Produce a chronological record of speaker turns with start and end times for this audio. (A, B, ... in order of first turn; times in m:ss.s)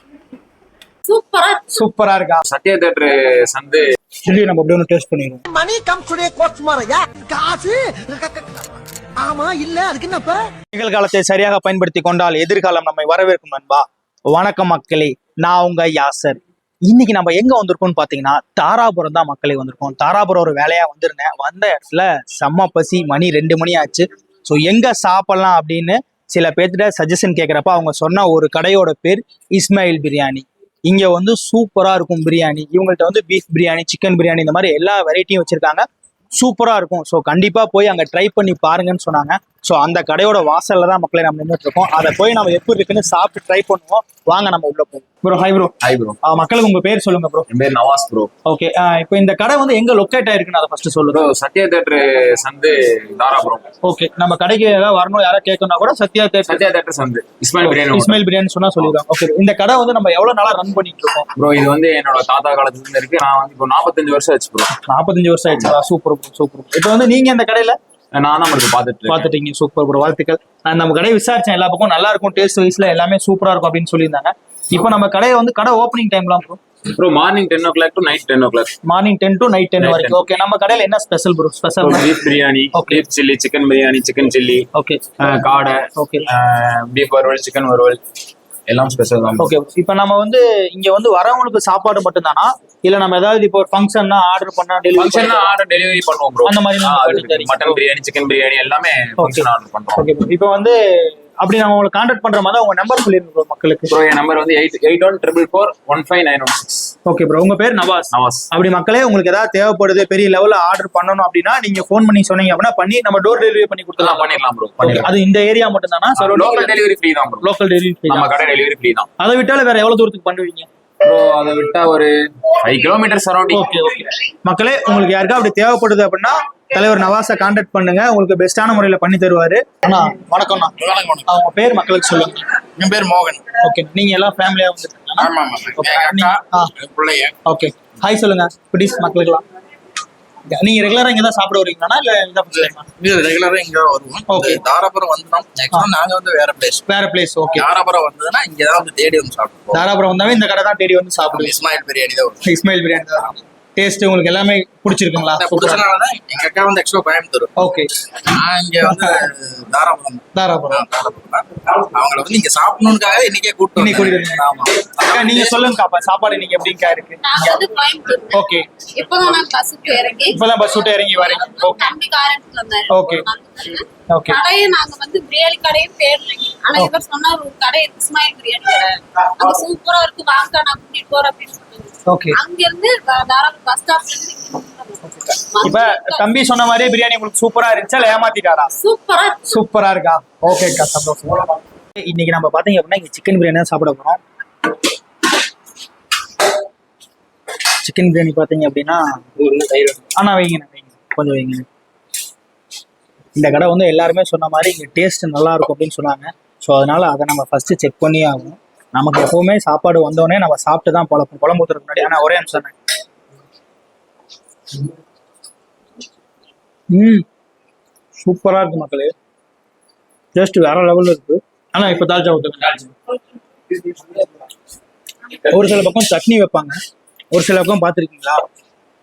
0:01.0-0:01.7 A
0:01.7-0:02.4 B
0:02.5-0:03.8 C
0:04.3-0:05.4 B
0:05.5-0:10.5 D
0:10.7-0:47.5 B
0:45.8-0:46.2 C
0:47.5-0:48.3 C
0:48.4-0:51.2 B
0:51.1-0:53.7 C
0:53.8-0:56.6 B
0:56.4-0:58.2 C
0:57.6-1:01.3 B
1:01.4-1:04.7 C
1:04.8-1:07.8 B
1:08.2-1:09.3 C
1:09.1-1:16.6 B
1:17.0-1:18.7 C
1:18.8-1:22.1 B
1:19.8-1:20.2 C
1:21.8-1:24.7 C
1:22.7-1:23.0 B
1:24.8-1:25.0 B
1:25.2-1:28.0 C
1:25.9-1:26.2 B
1:28.7-1:29.5 C
1:29.4-1:35.5 B
1:35.0-1:40.1 C
1:36.4-1:37.8 B
1:39.2-1:43.9 B
1:43.9-1:46.9 C
1:47.0-1:56.8 B
1:48.1-1:48.4 C
1:54.0-1:55.1 C
1:56.2-1:57.5 C
1:57.4-1:58.3 B
1:58.1-1:59.1 C
1:59.2-2:00.7 B
2:01.0-2:03.8 C
2:03.5-2:10.8 B
2:10.8-2:11.3 E
2:11.3-2:12.5 B
2:12.8-2:13.5 E
2:13.6-2:16.7 B
2:15.2-2:17.4 E
2:17.5-2:19.4 B
2:20.5-2:22.9 B
2:22.6-2:26.8 E
2:24.3-2:24.6 B
2:26.9-2:27.7 B
2:27.6-2:29.8 E
2:29.7-2:31.6 B
2:31.3-2:32.4 E
2:32.4-2:35.9 B
2:35.2-2:37.5 E
2:37.6-2:37.9 B
2:38.2-2:45.7 E
2:38.8-2:39.1 B
2:40.3-2:40.8 B
2:43.8-2:44.4 B
2:45.0-2:47.6 B
2:47.2-3:06.3 A
2:48.3-2:48.8 B
2:50.3-2:51.8 B
2:52.9-2:53.3 B
2:54.1-2:54.4 B
3:02.1-3:02.4 B
3:05.0-3:08.7 B
3:08.8-3:09.6 A
3:09.4-3:11.4 B
3:12.0-3:14.2 B
3:17.8-3:19.0 B
3:19.5-3:19.9 C
3:20.0-3:21.6 B
3:23.4-3:32.7 B
3:36.9-3:37.2 B
3:38.2-3:39.1 B
3:40.4-3:43.0 B
3:45.5-3:46.8 B
3:47.3-3:48.4 B